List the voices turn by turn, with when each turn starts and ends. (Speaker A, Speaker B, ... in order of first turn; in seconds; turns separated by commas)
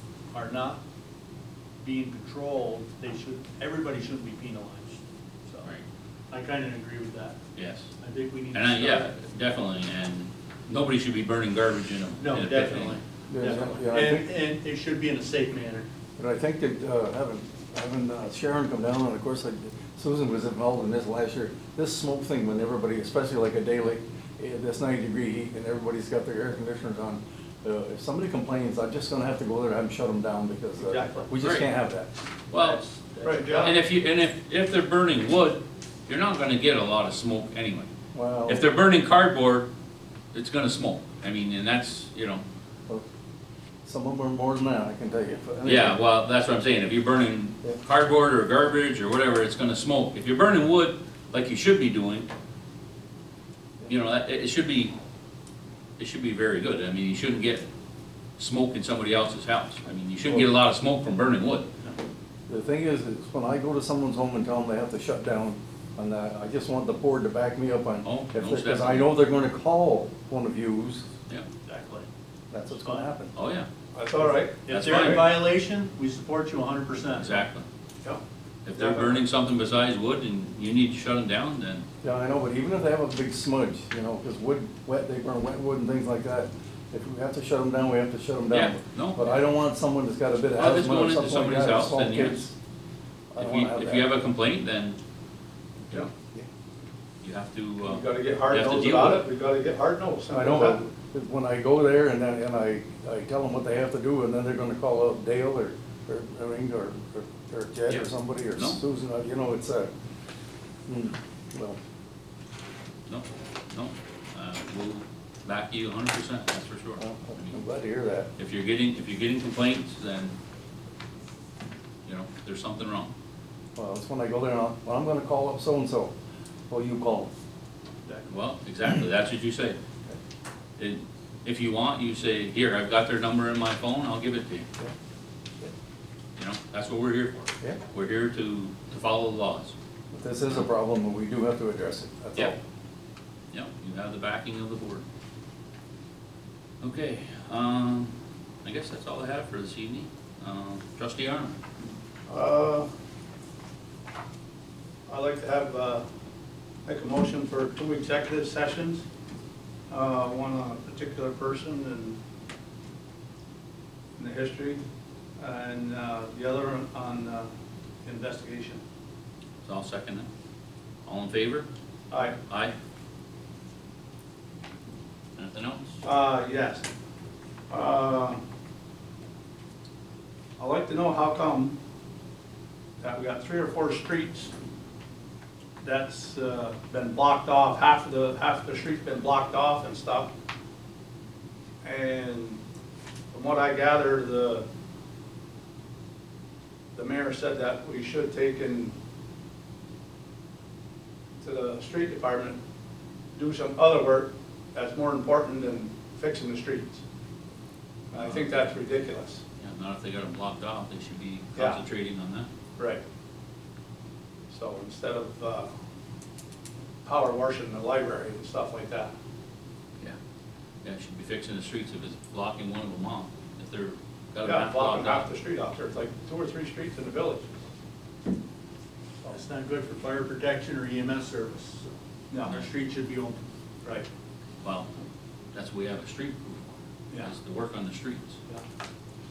Speaker A: 0.3-0.8, Speaker A: 1.8-5.7, Speaker A: 6.3-7.4, Speaker B: 7.5-7.9, Speaker A: 8.0-9.1, Speaker B: 8.5-13.0, Speaker A: 12.2-15.9, Speaker C: 13.3-14.3, Speaker C: 16.2-32.1, Speaker A: 30.8-31.3, Speaker B: 31.4-31.7, Speaker B: 32.5-32.8, Speaker A: 32.5-33.7, Speaker D: 33.2-33.7, Speaker B: 33.5-37.9, Speaker C: 38.1-38.7, Speaker B: 38.5-39.7, Speaker B: 40.3-42.4, Speaker C: 43.8-46.0, Speaker B: 45.6-52.3, Speaker B: 53.9-54.9, Speaker B: 56.0-57.7, Speaker B: 58.4-61.6, Speaker C: 62.5-71.1, Speaker B: 68.0-69.1, Speaker A: 71.7-72.1, Speaker C: 72.5-73.3, Speaker B: 73.3-73.7, Speaker D: 73.9-74.5, Speaker A: 74.2-77.4, Speaker B: 74.7-75.3, Speaker C: 74.9-75.3, Speaker B: 77.1-77.6, Speaker B: 78.6-81.8, Speaker D: 78.7-79.1, Speaker C: 82.0-92.5, Speaker B: 88.5-89.3, Speaker B: 90.5-92.4, Speaker C: 93.3-94.2, Speaker B: 93.4-95.0, Speaker B: 97.2-99.2, Speaker D: 97.8-100.8, Speaker C: 100.3-109.9, Speaker B: 107.9-108.8, Speaker C: 110.9-111.8, Speaker B: 113.1-117.5, Speaker C: 117.0-118.3, Speaker B: 118.4-120.3, Speaker B: 122.0-123.1, Speaker C: 123.8-126.1, Speaker C: 126.7-127.3, Speaker B: 128.3-129.8, Speaker B: 130.8-134.7, Speaker B: 136.4-139.7, Speaker C: 140.1-142.6, Speaker B: 143.5-145.0, Speaker B: 146.8-148.1, Speaker B: 148.6-151.6, Speaker D: 152.3-152.9, Speaker D: 155.1-156.0, Speaker D: 156.8-159.1, Speaker D: 159.9-162.2, Speaker D: 164.2-164.8, Speaker D: 165.4-167.5, Speaker D: 168.0-168.8, Speaker B: 169.6-170.3, Speaker B: 171.0-171.7, Speaker D: 172.1-172.4, Speaker B: 172.5-172.7, Speaker B: 175.3-176.0, Speaker D: 176.0-176.8, Speaker D: 177.7-178.4, Speaker D: 180.6-181.8, Speaker D: 183.0-184.5, Speaker D: 185.8-190.3, Speaker D: 191.8-192.6, Speaker D: 193.3-194.6, Speaker D: 196.9-198.9, Speaker D: 201.4-202.6, Speaker D: 203.3-207.0, Speaker D: 208.1-209.4, Speaker B: 208.1-208.5, Speaker B: 209.6-212.5, Speaker D: 211.6-211.8, Speaker D: 212.8-213.0, Speaker D: 214.5-215.7, Speaker D: 217.0-219.1, Speaker B: 220.8-225.3, Speaker D: 224.4-227.5, Speaker A: 229.3-231.9, Speaker D: 232.3-232.6, Speaker A: 232.4-233.4, Speaker B: 234.6-234.9, Speaker B: 235.5-238.4